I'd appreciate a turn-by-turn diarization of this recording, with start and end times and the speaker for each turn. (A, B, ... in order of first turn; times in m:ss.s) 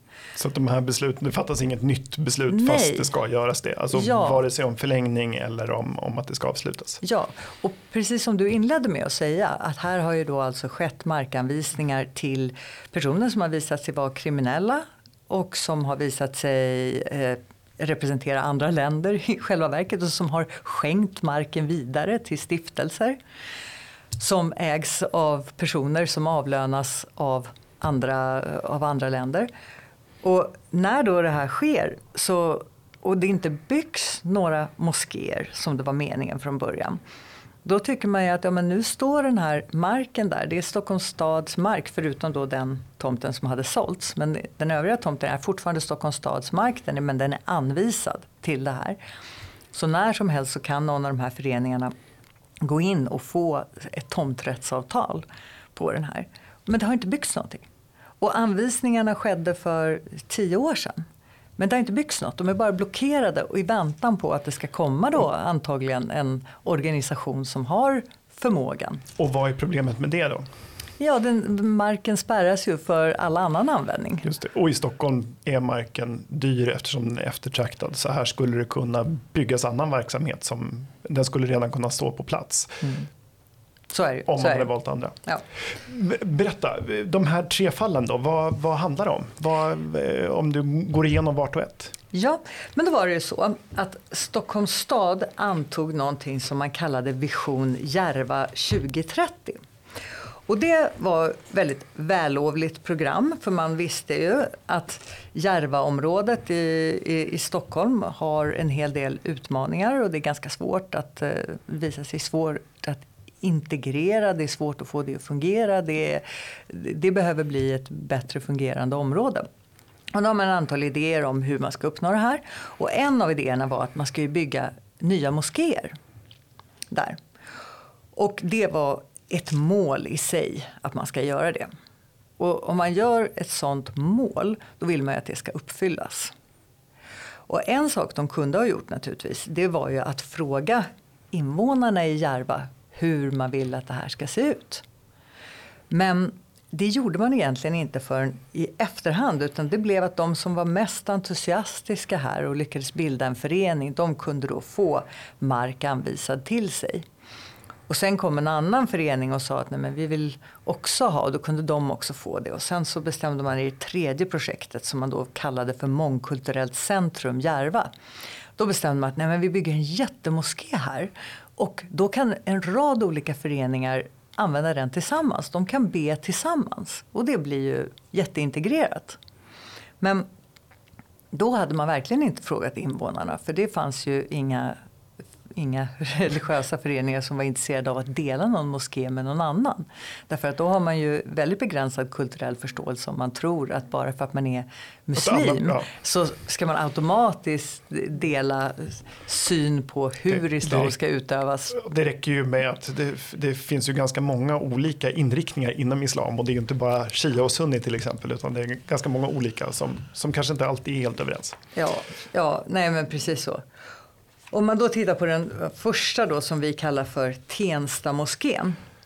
0:00.4-0:07.0 A
0:02.5-0:03.1 B
0:03.9-0:04.4 B
0:07.0-0:23.2 B
0:24.2-0:29.5 B
0:30.2-0:37.0 B
0:37.6-0:49.0 B
0:49.7-0:51.9 B
0:52.6-0:57.6 B
0:58.2-1:01.0 B
1:01.6-1:09.0 B
1:09.2-1:10.4 A
1:11.0-1:14.3 B
1:14.2-1:22.9 A
1:23.9-1:24.7 B
1:24.3-1:31.9 A
1:32.1-1:39.6 B
1:40.5-1:59.5 B
2:00.1-2:06.0 B
2:06.9-2:07.2 B
2:08.2-2:11.7 B
2:12.4-2:16.3 B
2:17.5-2:24.8 B
2:25.9-2:37.0 B
2:37.9-2:47.9 B
2:48.6-2:59.2 B
3:00.0-3:00.3 B
3:01.3-3:04.8 B
3:05.5-3:21.8 B
3:15.2-3:15.9 A
3:20.3-3:20.9 A
3:21.7-3:31.6 A
3:31.8-3:33.6 B
3:34.5-3:38.8 B